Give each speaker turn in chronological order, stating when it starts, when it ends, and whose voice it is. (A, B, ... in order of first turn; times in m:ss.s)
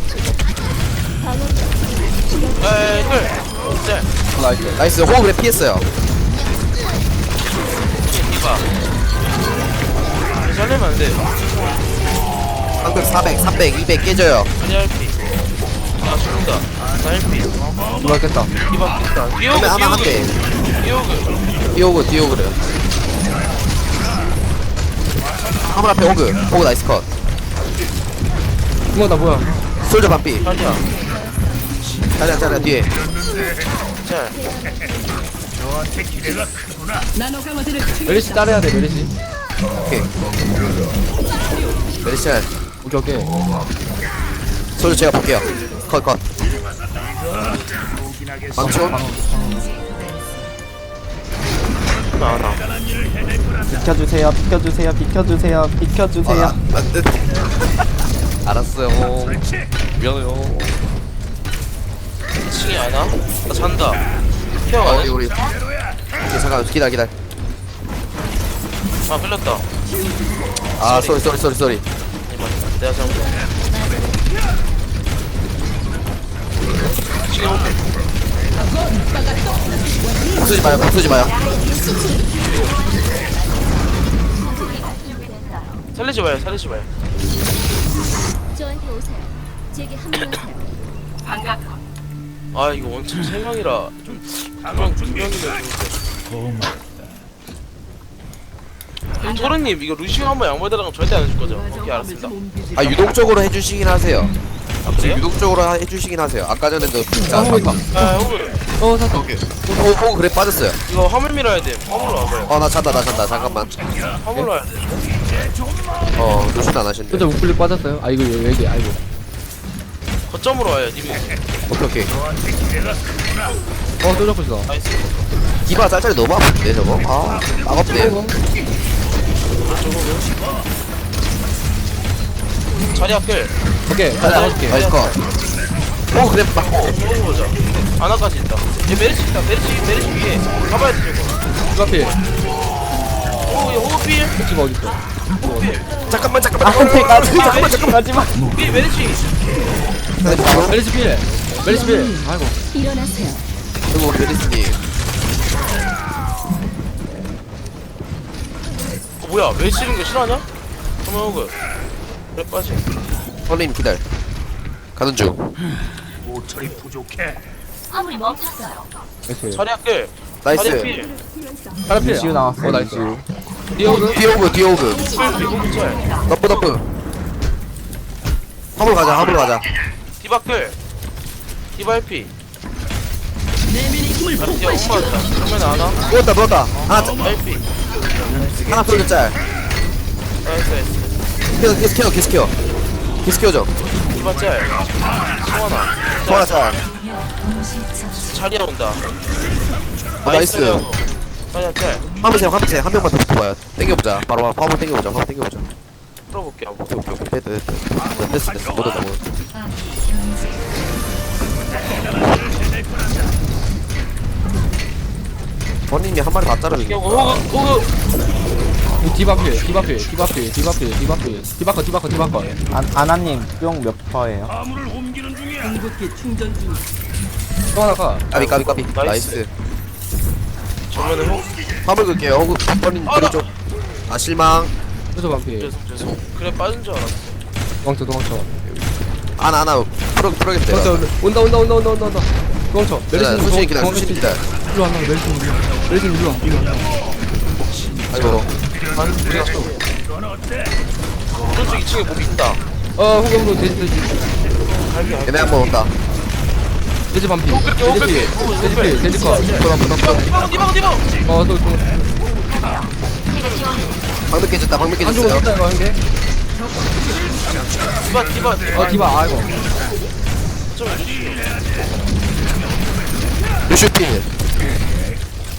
0:01.2-0:03.4 A
0:02.6-0:04.1 B
0:04.4-0:04.8 C
0:04.8-0:05.8 D
0:08.0-0:08.6 B
0:10.4-0:11.3 B
0:12.8-0:14.5 D
0:14.6-0:15.2 B
0:16.0-0:17.6 B
0:18.0-0:18.5 C
0:18.7-0:21.4 B
0:19.5-0:20.4 D
0:21.7-0:22.6 D
0:25.6-0:27.1 D
0:28.9-0:29.6 C
0:29.8-0:30.5 D
0:30.4-0:30.9 B
0:32.2-0:33.0 D
0:33.0-0:35.3 A
0:34.0-0:34.4 B
0:38.0-0:39.1 C
0:39.7-0:40.2 D
0:42.0-0:42.5 D
0:42.8-0:43.3 C
0:44.8-0:46.2 D
0:48.6-0:49.0 D
0:48.6-0:49.7 E
0:49.7-0:50.3 F
0:52.2-0:52.6 B
0:53.6-0:56.6 E
0:56.2-0:57.4 D
0:58.4-1:00.8 D
1:02.4-1:04.0 B
1:04.6-1:05.2 B
1:04.8-1:05.4 D
1:06.2-1:07.1 D
1:09.1-1:09.6 B
1:10.8-1:11.8 D
1:10.8-1:11.3 B
1:12.2-1:13.5 B
1:13.4-1:14.1 A
1:17.2-1:17.8 B
1:20.3-1:21.4 D
1:21.4-1:23.6 A
1:24.3-1:25.8 A
1:25.9-1:26.9 B
1:28.5-1:30.7 A
1:32.5-1:36.0 B
1:39.2-1:42.3 B
1:42.7-1:44.3 D
1:44.8-1:45.2 B
1:44.9-1:47.8 D
1:47.2-1:48.1 C
1:47.9-1:48.6 B
1:48.8-1:49.2 C
1:49.1-1:50.8 D
1:50.9-1:52.5 B
1:52.5-1:53.9 D
1:54.2-1:55.1 B
1:56.2-1:57.3 D
1:57.1-1:59.0 C
2:00.3-2:01.4 B
2:01.7-2:02.2 D
2:04.0-2:04.7 C
2:04.7-2:05.3 B
2:05.6-2:08.2 D
2:07.9-2:08.3 C
2:09.6-2:10.3 B
2:12.8-2:13.5 B
2:13.9-2:14.8 C
2:14.2-2:15.2 D
2:14.2-2:15.2 B
2:16.1-2:17.0 D
2:16.6-2:21.4 B
2:21.7-2:22.2 C
2:23.5-2:24.4 B
2:24.3-2:25.7 C
2:25.4-2:25.9 B
2:26.1-2:27.9 D
2:26.6-2:28.5 E
2:27.3-2:27.8 B
2:28.5-2:29.2 B
2:30.2-2:30.8 D
2:30.2-2:30.7 E
2:30.6-2:32.6 C
2:31.6-2:32.2 F
2:32.7-2:33.4 F
2:32.8-2:33.3 A
2:33.9-2:34.8 D
2:39.2-2:40.4 B
2:41.0-2:41.6 B
2:42.3-2:42.8 B
2:43.5-2:44.0 D
2:44.9-2:45.5 D
2:48.0-2:48.8 A
2:49.3-2:49.6 C
2:49.5-2:51.1 B
2:50.4-2:50.9 D
2:51.9-2:53.1 C
2:52.0-2:53.2 E
2:53.7-2:54.2 C
2:53.8-2:55.1 D
2:53.8-2:54.2 B
2:54.9-2:56.7 B
2:56.2-2:56.8 D
2:58.8-2:59.7 D
3:00.2-3:00.8 B
3:01.8-3:02.3 B
3:04.4-3:06.0 B
3:06.0-3:07.3 D
3:07.2-3:07.6 B
3:08.6-3:09.4 D
3:10.4-3:11.2 B
3:11.5-3:12.5 D
3:13.2-3:13.7 D
3:14.1-3:16.6 B
3:16.2-3:16.8 D
3:17.1-3:18.1 F
3:18.1-3:19.0 B
3:20.2-3:20.9 D
3:20.2-3:22.1 B
3:22.2-3:25.7 D
3:26.3-3:26.9 B
3:26.9-3:29.2 D
3:30.2-3:30.6 F
3:35.9-3:37.5 D
3:36.7-3:37.9 B
3:39.0-3:42.6 C
3:42.7-3:44.5 E
3:47.7-3:48.3 C
3:48.3-3:49.5 D
3:48.3-3:49.4 B
3:50.9-3:51.5 B
3:51.8-3:53.5 D
3:53.0-3:53.5 B
3:54.1-3:54.7 D
3:55.1-3:55.7 C
3:55.6-3:57.4 B
3:57.8-3:58.5 C
3:58.6-4:01.1 D
4:00.7-4:06.6 C
4:03.1-4:04.4 D
4:08.1-4:08.5 D
4:08.9-4:09.8 B
4:11.5-4:12.6 B
4:13.0-4:14.1 C
4:14.6-4:15.5 B
4:15.2-4:15.9 D
4:17.1-4:19.7 C
4:17.5-4:21.2 B
4:19.5-4:20.5 D
4:21.2-4:22.0 C
4:23.5-4:23.8 A
4:24.3-4:25.5 D
4:25.0-4:26.0 C
4:27.8-4:29.2 B
4:28.7-4:29.6 C
4:30.7-4:31.5 B
4:33.7-4:34.3 D